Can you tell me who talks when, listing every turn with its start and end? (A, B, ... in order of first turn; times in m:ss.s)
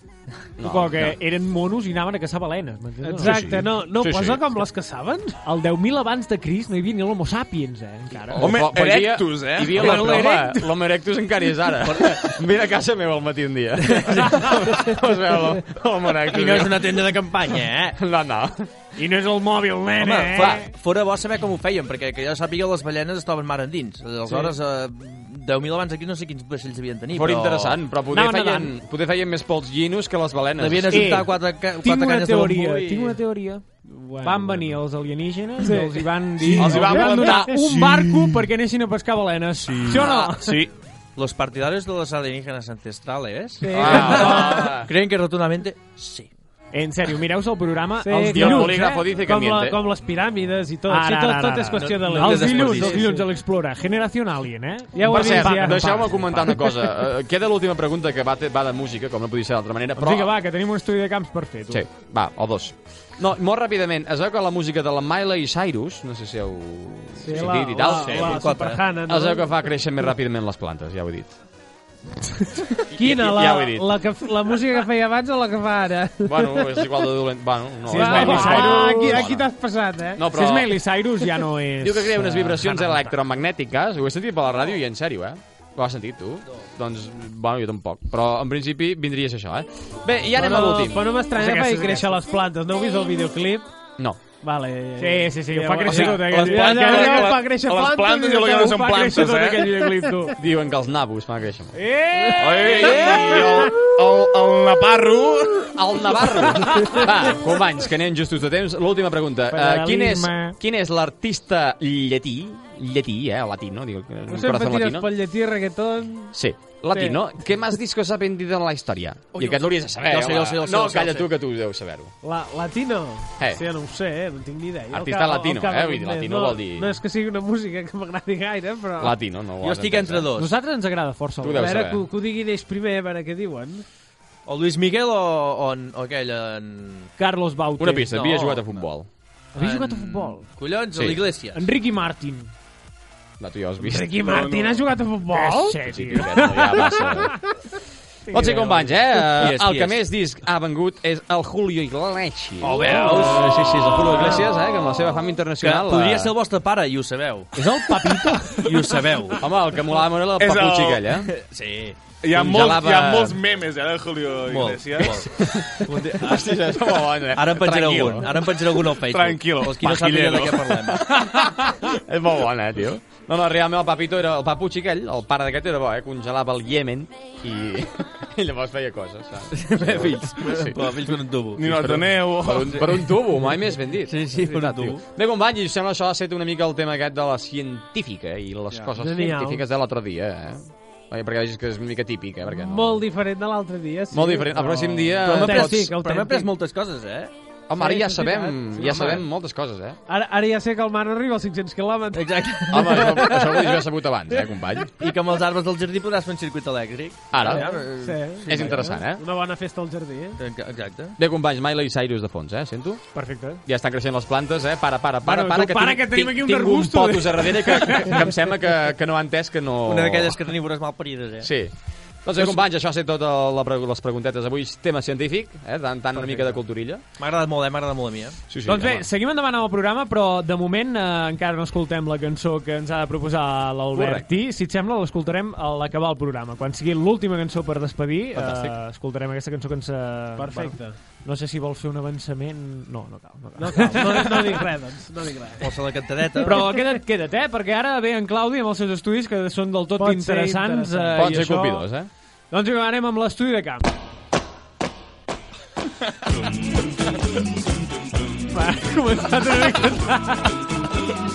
0:00.6-0:01.2 A
0:00.6-0:03.4 B
0:03.0-0:05.4 C
0:03.2-0:04.6 A
0:05.4-0:08.5 B
0:08.2-0:17.1 A
0:08.4-0:10.2 D
0:09.7-0:10.7 B
0:11.8-0:12.2 E
0:13.8-0:14.7 E
0:16.3-0:18.0 E
0:18.0-0:18.7 A
0:19.0-0:20.7 B
0:20.0-0:27.8 E
0:27.1-0:31.2 A
0:28.1-0:28.7 B
0:30.6-0:33.2 E
0:30.9-0:40.6 B
0:33.9-0:34.8 C
0:35.6-0:37.6 C
0:36.5-0:38.5 D
0:39.7-0:40.7 D
0:40.0-0:40.4 E
0:41.2-0:46.3 E
0:43.6-0:44.8 C
0:43.7-0:44.9 A
0:46.7-0:49.1 B
0:48.0-0:53.3 C
0:48.3-0:49.8 A
0:50.9-0:56.7 B
0:51.8-0:53.0 E
0:54.9-0:56.1 C
0:55.0-1:00.3 A
1:00.0-1:01.8 B
1:01.7-1:08.5 A
1:07.2-1:09.7 C
1:07.8-1:08.8 E
1:09.1-1:11.4 A
1:12.9-1:14.1 A
1:12.9-1:16.9 C
1:16.2-1:19.5 A
1:17.9-1:19.2 B
1:17.9-1:20.2 C
1:20.2-1:20.8 A
1:20.3-1:23.2 B
1:21.8-1:31.2 A
1:30.3-1:33.7 C
1:31.4-1:32.1 B
1:34.4-1:40.4 C
1:35.0-1:37.3 B
1:35.9-1:39.8 D
1:38.7-1:40.3 B
1:40.4-1:41.8 A
1:41.8-1:43.4 B
1:42.2-1:43.7 C
1:42.4-1:45.8 D
1:45.8-1:55.1 A
1:49.5-1:50.6 B
1:54.3-1:56.4 C
1:56.3-2:02.1 A
1:56.9-1:57.2 C
1:59.4-2:01.3 E
2:02.2-2:09.2 C
2:04.9-2:07.0 A
2:09.0-2:10.3 A
2:09.6-2:10.5 E
2:10.4-2:11.7 B
2:11.4-2:12.0 A
2:11.6-2:13.8 C
2:14.5-2:17.1 E
2:17.2-2:18.1 B
2:17.8-2:19.1 A
2:18.1-2:18.8 E
2:19.6-2:20.4 B
2:19.6-2:21.6 E
2:20.9-2:21.2 A
2:21.5-2:22.5 B
2:23.4-2:24.2 A
2:23.8-2:25.9 C
2:24.2-2:24.9 D
2:25.3-2:27.2 B
2:25.8-2:27.4 A
2:28.3-2:29.0 B
2:28.3-2:36.3 A
2:29.3-2:30.0 E
2:32.6-2:34.6 E
2:35.6-2:37.7 E
2:37.6-2:38.9 B
2:38.5-2:39.4 E
2:39.4-2:41.3 A
2:40.4-2:41.0 D
2:41.3-2:42.0 E
2:42.2-2:45.2 D
2:42.3-2:43.4 A
2:44.5-2:51.1 E
2:45.1-2:48.3 A
2:49.1-2:50.8 D
2:50.9-3:00.8 A
2:59.5-3:01.6 E
3:01.6-3:03.0 D
3:01.6-3:13.0 A
3:04.0-3:05.0 E
3:09.0-3:09.6 C
3:12.5-3:16.5 C
3:14.1-3:15.9 A
3:15.2-3:17.3 E
3:17.7-3:20.0 A
3:17.8-3:19.0 C
3:18.8-3:19.2 E
3:20.1-3:22.4 C
3:22.1-3:23.8 E
3:22.7-3:24.9 A
3:25.0-3:29.0 E
3:27.3-3:27.8 A
3:27.4-3:30.4 C
3:28.5-3:29.2 A
3:30.4-3:31.2 E
3:31.2-3:40.4 A
3:33.1-3:33.6 B
3:35.2-3:38.3 B
3:39.9-3:41.5 E
3:41.4-3:41.7 A
3:42.2-3:47.0 A
3:47.2-3:48.4 E
3:48.5-3:49.1 A
3:48.7-4:04.6 B
3:53.9-3:54.3 A
3:58.3-3:58.8 A
4:00.4-4:01.0 C
4:03.6-4:05.7 C
4:05.6-4:06.6 E
4:06.4-4:11.9 B
4:10.0-4:11.6 C
4:11.2-4:12.1 A
4:12.5-4:13.9 B
4:18.5-4:20.6 B